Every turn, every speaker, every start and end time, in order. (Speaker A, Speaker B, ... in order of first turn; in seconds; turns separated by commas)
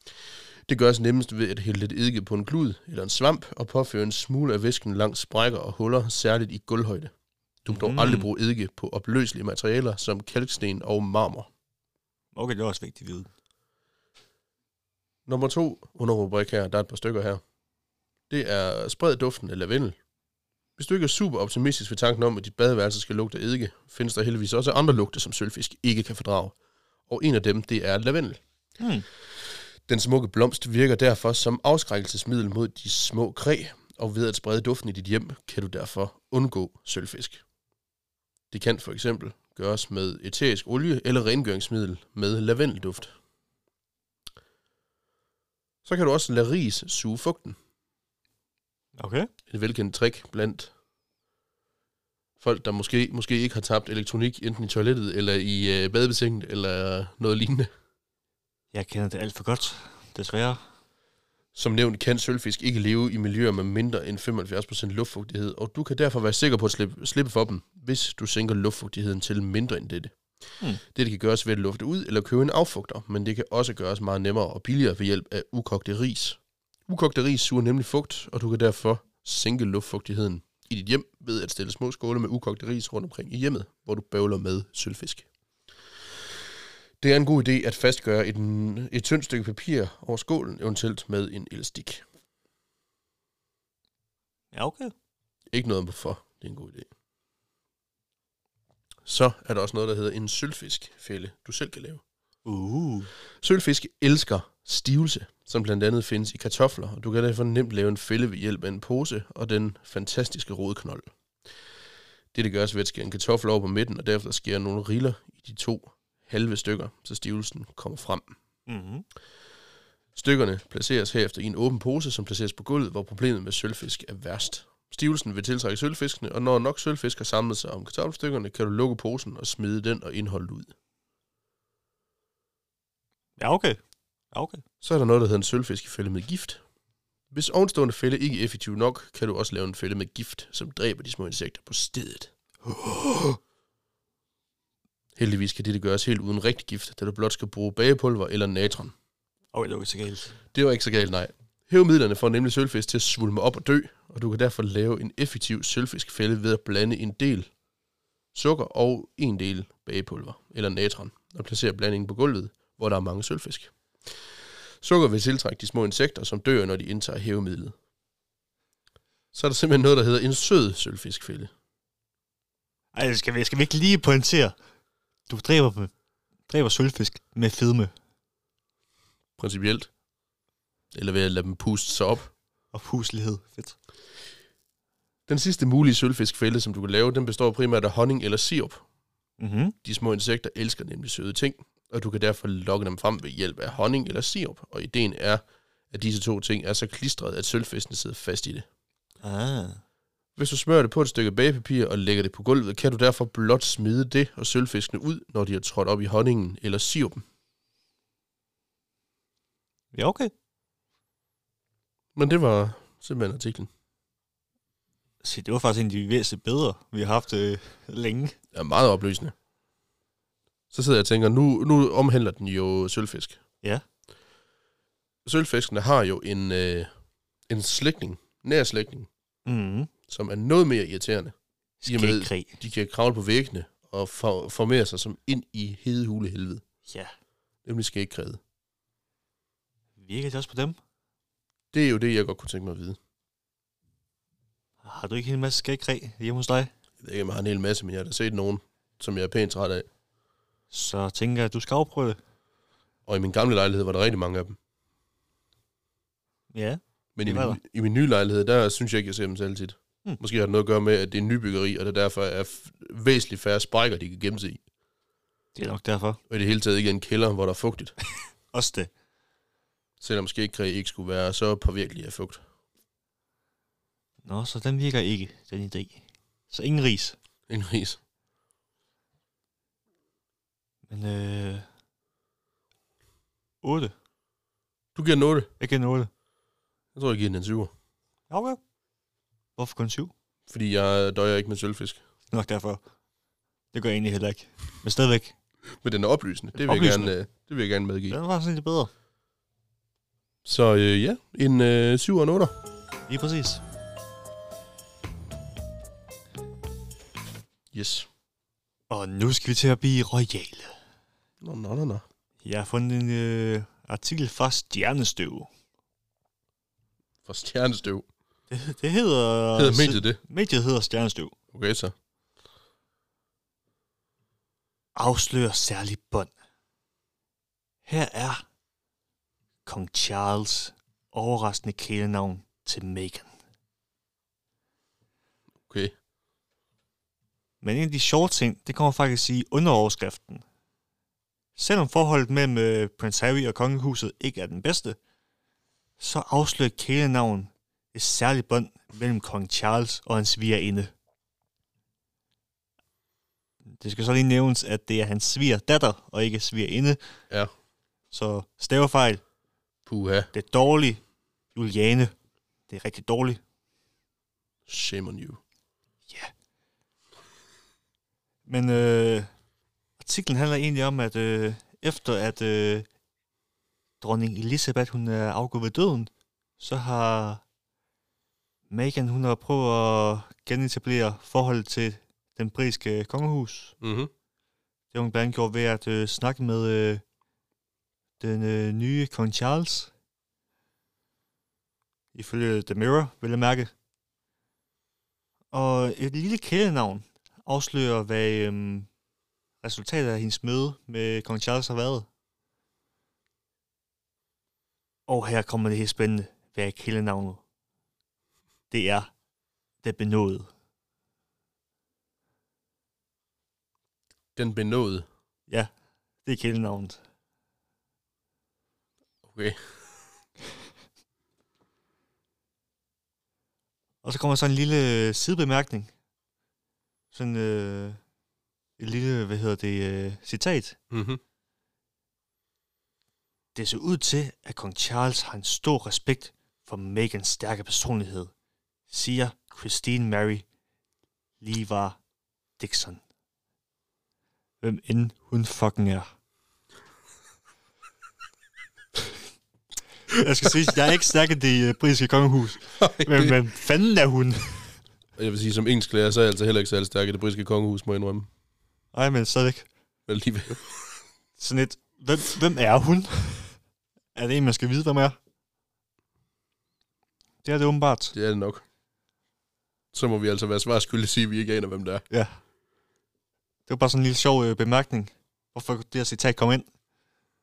Speaker A: 0.7-7.1, Speaker A: 7.7-11.5, Speaker B: 7.7-8.3, Speaker B: 12.3-13.3, Speaker A: 15.3-17.4, Speaker A: 18.3-20.0, Speaker A: 20.8-26.6, Speaker A: 27.1-28.4, Speaker B: 28.8-29.1, Speaker A: 29.9-37.4, Speaker A: 38.5-43.1, Speaker A: 45.9-47.6, Speaker B: 49.0-49.3, Speaker A: 49.5-50.7, Speaker A: 52.4-57.7, Speaker B: 58.7-60.6, Speaker A: 61.5-70.1, Speaker A: 70.9-85.3, Speaker A: 87.0-92.0, Speaker B: 94.5-94.9, Speaker A: 95.5-96.9, Speaker A: 99.0-102.0, Speaker B: 102.5-103.1, Speaker A: 103.4-111.1, Speaker A: 112.3-118.3, Speaker B: 118.7-119.1, Speaker A: 120.2-130.7, Speaker B: 133.4-133.8, Speaker B: 134.3-134.6, Speaker A: 134.8-136.6, Speaker A: 137.3-142.3, Speaker B: 142.7-143.4, Speaker A: 145.2-148.9, Speaker B: 149.5-150.3, Speaker A: 150.5-157.5, Speaker A: 158.3-163.7, Speaker A: 164.8-167.8, Speaker A: 169.3-171.5, Speaker B: 172.9-174.6, Speaker B: 175.3-175.9, Speaker B: 176.5-177.9, Speaker A: 179.4-179.9, Speaker A: 180.9-182.3, Speaker B: 182.7-183.8, Speaker A: 185.3-188.8, Speaker B: 189.4-189.8, Speaker A: 189.8-198.7, Speaker B: 199.2-199.8, Speaker A: 200.4-207.2, Speaker B: 209.9-210.3, Speaker A: 212.2-213.7, Speaker B: 215.2-218.3, Speaker A: 218.5-219.3, Speaker A: 220.7-223.4, Speaker A: 225.2-226.9, Speaker A: 227.5-229.1, Speaker B: 229.5-229.9, Speaker A: 230.1-231.3, Speaker B: 231.8-232.6, Speaker A: 231.9-236.6, Speaker B: 236.9-237.1, Speaker A: 237.7-238.4, Speaker B: 240.0-240.8, Speaker A: 241.7-243.0, Speaker B: 244.8-246.7, Speaker A: 247.0-249.9, Speaker B: 250.7-252.2, Speaker A: 253.1-254.6, Speaker B: 256.5-257.6, Speaker A: 257.2-264.6, Speaker B: 265.6-266.2, Speaker A: 266.3-267.9, Speaker B: 268.5-268.9, Speaker A: 270.0-272.4, Speaker B: 274.3-277.2, Speaker A: 277.5-278.0, Speaker B: 280.9-281.7, Speaker B: 283.6-283.9, Speaker A: 284.9-285.5, Speaker B: 285.6-286.1, Speaker A: 286.9-287.7, Speaker B: 288.3-288.6, Speaker B: 289.6-290.1, Speaker A: 290.5-292.0, Speaker B: 292.3-292.8, Speaker B: 293.7-295.4, Speaker A: 295.8-298.2, Speaker B: 296.6-297.1, Speaker B: 298.1-298.9, Speaker A: 300.4-302.5, Speaker B: 303.1-303.6, Speaker A: 307.7-308.1, Speaker B: 308.9-310.8, Speaker A: 311.4-312.1, Speaker B: 312.4-315.5, Speaker A: 317.2-318.1, Speaker B: 318.5-321.3, Speaker A: 319.6-320.2, Speaker A: 321.5-321.9, Speaker B: 325.0-326.3, Speaker B: 327.9-328.4, Speaker B: 329.7-333.3, Speaker A: 335.7-335.9, Speaker B: 337.6-340.4, Speaker B: 341.6-345.0, Speaker B: 346.0-350.9, Speaker B: 353.8-357.0, Speaker B: 358.1-359.2, Speaker A: 359.9-360.3, Speaker B: 360.3-361.0, Speaker B: 361.6-362.1, Speaker B: 362.7-363.4, Speaker A: 364.7-365.4, Speaker B: 368.5-369.3, Speaker B: 370.0-372.9, Speaker B: 374.0-377.4, Speaker B: 378.7-383.8, Speaker A: 383.8-384.1, Speaker B: 384.9-387.0, Speaker B: 388.2-389.9, Speaker B: 392.1-393.7, Speaker B: 395.5-398.9, Speaker B: 399.6-402.1, Speaker B: 405.1-407.4, Speaker B: 408.7-409.1, Speaker B: 409.8-410.5, Speaker A: 414.4-415.1, Speaker B: 416.2-417.0, Speaker A: 419.2-419.6, Speaker B: 424.0-425.9, Speaker B: 427.1-428.0, Speaker B: 428.8-430.8, Speaker A: 430.9-431.2, Speaker B: 433.6-438.3, Speaker B: 438.9-440.4, Speaker B: 441.4-442.0, Speaker B: 442.6-443.0, Speaker B: 444.6-446.1, Speaker B: 450.1-454.7, Speaker A: 452.8-453.4, Speaker A: 455.2-458.3, Speaker B: 458.9-459.7, Speaker A: 460.1-460.7, Speaker B: 461.4-463.6, Speaker B: 464.1-465.2, Speaker B: 467.4-468.1, Speaker A: 468.1-468.6, Speaker A: 469.9-472.1, Speaker B: 472.1-472.4, Speaker B: 473.7-476.7